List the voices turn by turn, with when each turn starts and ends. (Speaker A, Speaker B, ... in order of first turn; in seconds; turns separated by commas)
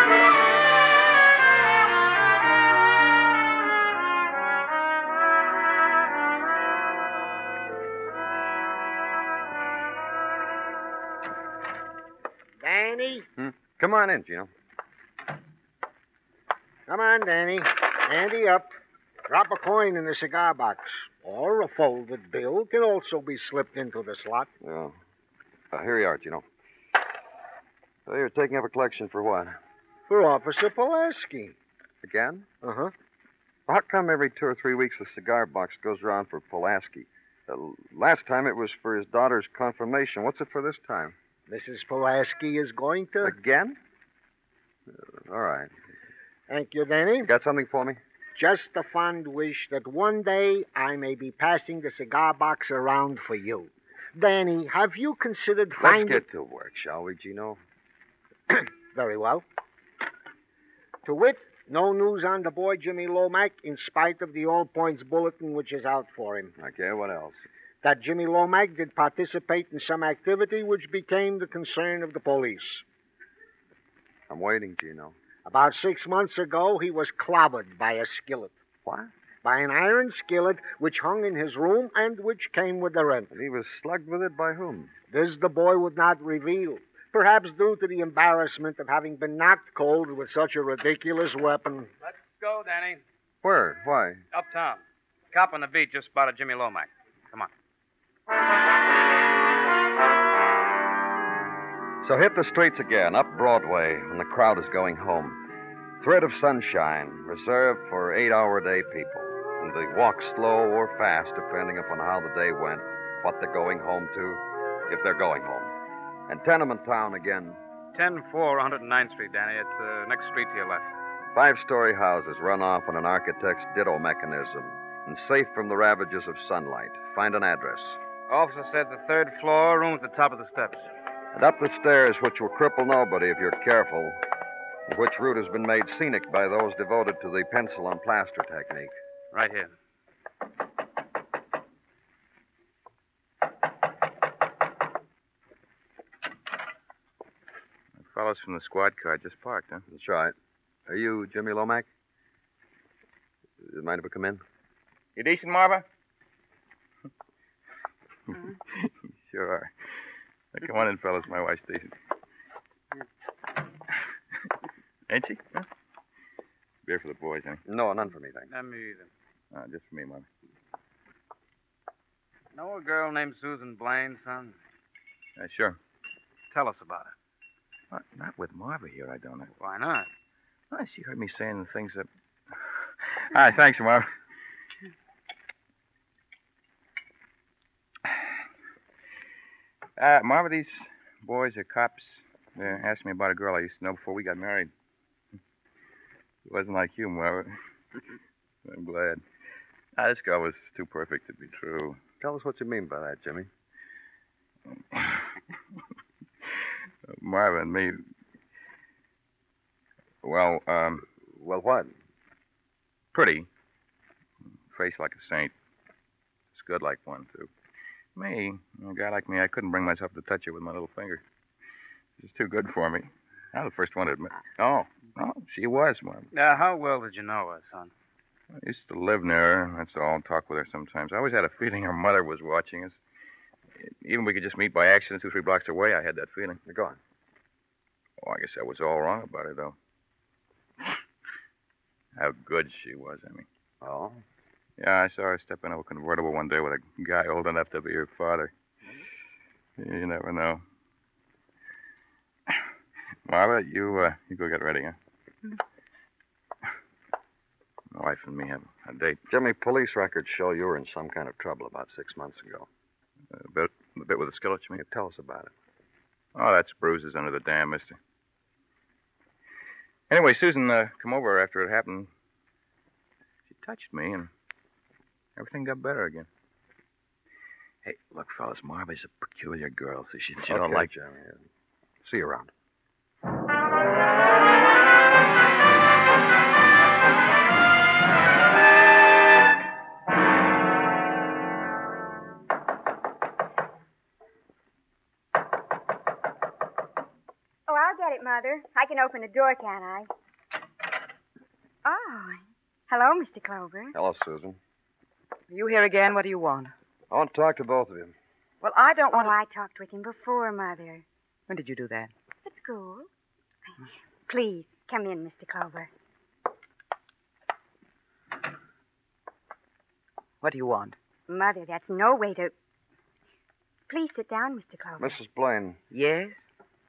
Speaker A: 12.6-13.3, Speaker B: 13.4-14.5, Speaker A: 16.9-18.7, Speaker A: 19.3-24.5, Speaker B: 24.6-25.0, Speaker B: 25.7-26.4, Speaker B: 28.1-29.6, Speaker A: 30.1-31.6, Speaker B: 32.0-32.5, Speaker A: 32.6-32.9, Speaker B: 33.7-41.2, Speaker A: 41.5-43.4, Speaker B: 43.2-43.8, Speaker B: 44.9-45.7, Speaker A: 46.5-47.3, Speaker B: 47.2-48.0, Speaker A: 48.4-56.3, Speaker B: 55.8-57.6, Speaker A: 58.5-59.5, Speaker A: 61.0-66.5, Speaker B: 66.6-67.4, Speaker A: 67.8-72.8, Speaker B: 74.3-75.2, Speaker A: 75.5-78.5, Speaker B: 78.8-79.1, Speaker A: 79.4-83.3, Speaker B: 83.3-84.9, Speaker A: 85.1-91.9, Speaker C: 92.0-93.0, Speaker B: 93.4-94.2, Speaker C: 94.3-97.5, Speaker B: 102.0-105.4, Speaker B: 106.0-115.7, Speaker B: 116.3-117.6, Speaker C: 117.9-120.9, Speaker B: 121.3-128.0, Speaker C: 128.3-130.9, Speaker B: 131.3-134.2, Speaker B: 134.9-139.0, Speaker C: 139.3-139.7, Speaker D: 148.0-149.8, Speaker B: 149.9-150.3, Speaker B: 150.9-151.9, Speaker B: 153.6-154.4, Speaker D: 155.2-155.9, Speaker D: 158.3-159.7, Speaker D: 160.5-161.9, Speaker D: 165.1-165.7, Speaker D: 166.8-167.6, Speaker B: 167.7-168.5, Speaker C: 168.5-169.1, Speaker D: 169.5-170.3, Speaker C: 172.6-174.6, Speaker D: 175.4-175.8, Speaker C: 176.5-177.1, Speaker D: 177.9-179.5, Speaker C: 179.6-180.1, Speaker D: 180.7-184.1, Speaker D: 190.0-194.7, Speaker D: 196.4-197.6, Speaker D: 198.7-199.2, Speaker D: 200.0-202.0, Speaker B: 202.2-203.5, Speaker D: 204.7-205.3, Speaker D: 207.1-208.0, Speaker D: 210.2-211.1, Speaker B: 211.2-211.9, Speaker D: 213.1-213.5, Speaker D: 214.7-215.5, Speaker D: 216.5-217.5, Speaker D: 218.2-221.2, Speaker D: 222.2-226.3, Speaker C: 226.3-227.9, Speaker D: 228.6-233.0, Speaker D: 233.8-236.6, Speaker B: 236.7-237.0, Speaker D: 238.2-239.8, Speaker D: 242.2-243.5, Speaker B: 243.8-244.2, Speaker D: 244.8-248.5, Speaker D: 249.8-250.6, Speaker D: 253.3-255.0, Speaker D: 257.9-259.2, Speaker B: 259.3-262.7, Speaker D: 263.3-264.8, Speaker B: 264.8-265.5, Speaker D: 266.4-268.0, Speaker D: 270.1-272.1, Speaker D: 273.5-274.3, Speaker D: 275.4-276.3, Speaker D: 277.8-280.9, Speaker B: 280.5-281.4, Speaker B: 282.0-282.5, Speaker E: 297.7-300.1, Speaker E: 301.8-303.9, Speaker B: 303.9-304.6, Speaker F: 305.5-306.7, Speaker B: 307.1-308.1, Speaker F: 308.6-309.4, Speaker E: 309.1-311.1, Speaker F: 311.5-312.1, Speaker E: 312.4-313.1, Speaker E: 314.3-315.9, Speaker F: 320.4-321.0, Speaker E: 321.3-322.5, Speaker E: 323.9-325.1, Speaker B: 325.0-325.8, Speaker F: 325.9-326.4